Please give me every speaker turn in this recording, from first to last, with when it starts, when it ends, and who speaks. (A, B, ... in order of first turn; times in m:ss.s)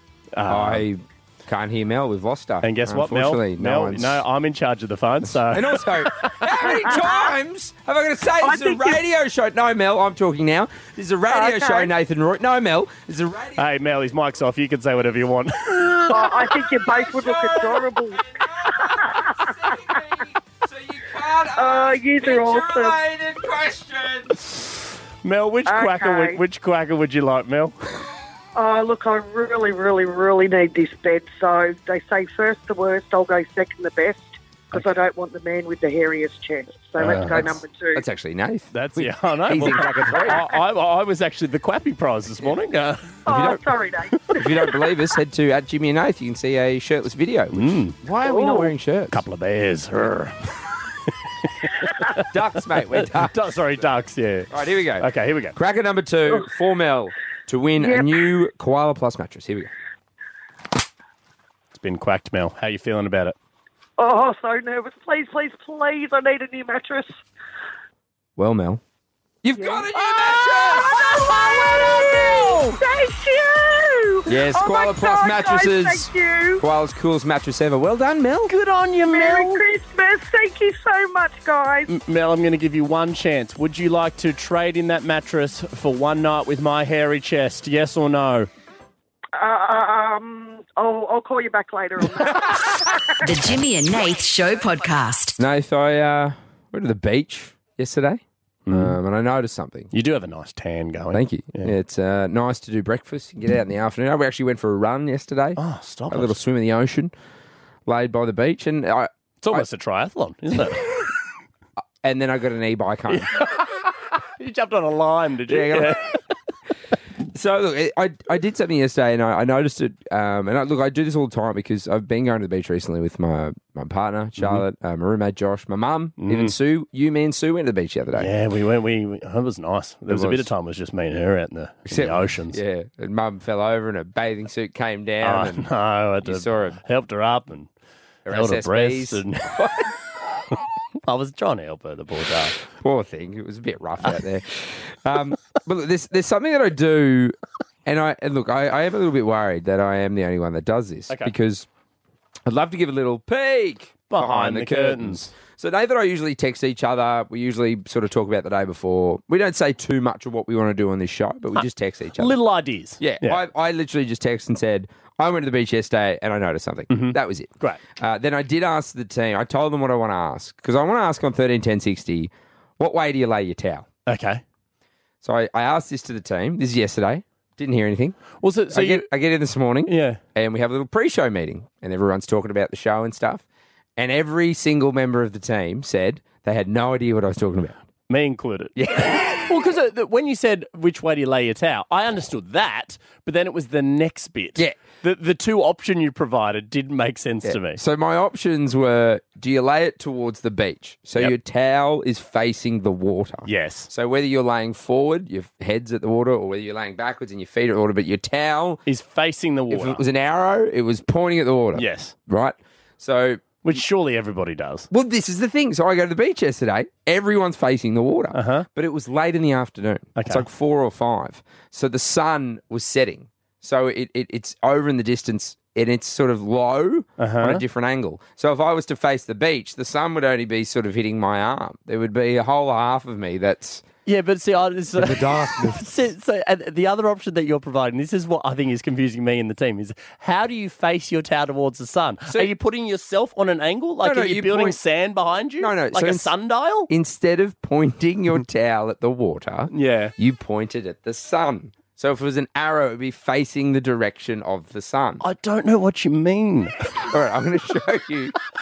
0:00.4-0:00.8 A
0:00.5-0:04.2 B
0:02.6-0:06.4 A
0:05.2-0:13.7 B
0:06.6-0:07.3 C
0:08.4-0:09.0 C
0:11.3-0:11.9 C
0:13.6-0:16.3 A
0:16.1-0:19.8 C
0:16.3-0:24.3 B
0:21.5-0:23.0 C
0:25.2-0:27.8 A
0:25.7-0:26.4 C
0:28.6-0:38.0 C
0:37.0-0:37.5 A
0:37.0-0:40.4 B
0:38.7-0:43.3 A
0:39.7-0:40.5 C
0:43.3-0:43.6 B
0:43.3-0:44.9 C
0:44.4-0:49.2 B
0:47.5-0:48.0 A
0:48.2-0:48.7 C
0:49.1-0:50.4 A
0:51.4-0:52.2 A
0:52.2-0:53.4 B
0:52.8-0:55.6 A
0:54.5-0:59.7 B
0:57.8-0:58.2 C
1:01.7-1:03.4 A
1:04.0-1:07.2 C
1:08.4-1:08.8 B
1:09.4-1:11.3 B
1:09.6-1:16.6 C
1:11.0-1:12.8 A
1:14.3-1:18.5 B
1:18.5-1:19.6 A
1:19.1-1:21.9 C
1:21.9-1:28.5 A
1:29.4-1:32.8 C
1:33.2-1:35.4 D
1:35.4-1:39.9 B
1:38.7-1:39.0 A
1:39.9-1:41.7 A
1:41.1-1:45.6 B
1:45.6-1:46.4 A
1:46.1-1:47.1 B
1:47.9-1:49.6 B
1:49.4-1:50.9 A
1:52.0-1:53.3 B
1:53.1-1:53.8 A
1:54.4-1:56.2 A
1:55.5-1:56.0 B
1:57.3-2:08.3 B
2:04.4-2:04.6 A
2:06.2-2:06.6 A
2:08.2-2:12.6 A
2:10.1-2:10.5 B
2:11.9-2:15.7 B
2:15.2-2:17.7 A
2:16.2-2:16.8 B
2:18.3-2:19.9 B
2:18.3-2:19.5 A
2:21.1-2:22.6 A
2:22.7-2:31.7 B
2:32.5-2:42.4 B
2:34.1-2:35.3 A
2:42.2-2:43.4 A
2:43.0-2:53.9 B
2:46.9-2:47.8 A
2:54.1-2:54.4 A
2:55.2-2:58.2 B
2:58.4-2:59.1 A
2:58.7-3:03.4 B
2:59.9-3:00.2 A
3:04.0-3:07.8 B
3:08.1-3:17.8 A
3:08.8-3:09.5 B
3:17.4-3:28.8 B
3:23.5-3:23.9 A
3:28.9-3:30.0 A
3:29.7-3:33.6 B
3:31.8-3:32.1 A
3:33.6-3:34.9 A
3:34.9-3:53.8 B
3:38.3-3:38.7 A
3:40.2-3:40.5 A
3:47.2-3:47.6 A
3:54.1-4:06.9 A
3:55.0-3:55.8 B
4:04.0-4:04.8 B
4:05.6-4:06.3 B
4:06.9-4:15.2 B
4:09.7-4:10.1 A
4:15.2-4:17.0 A
4:17.0-4:18.3 B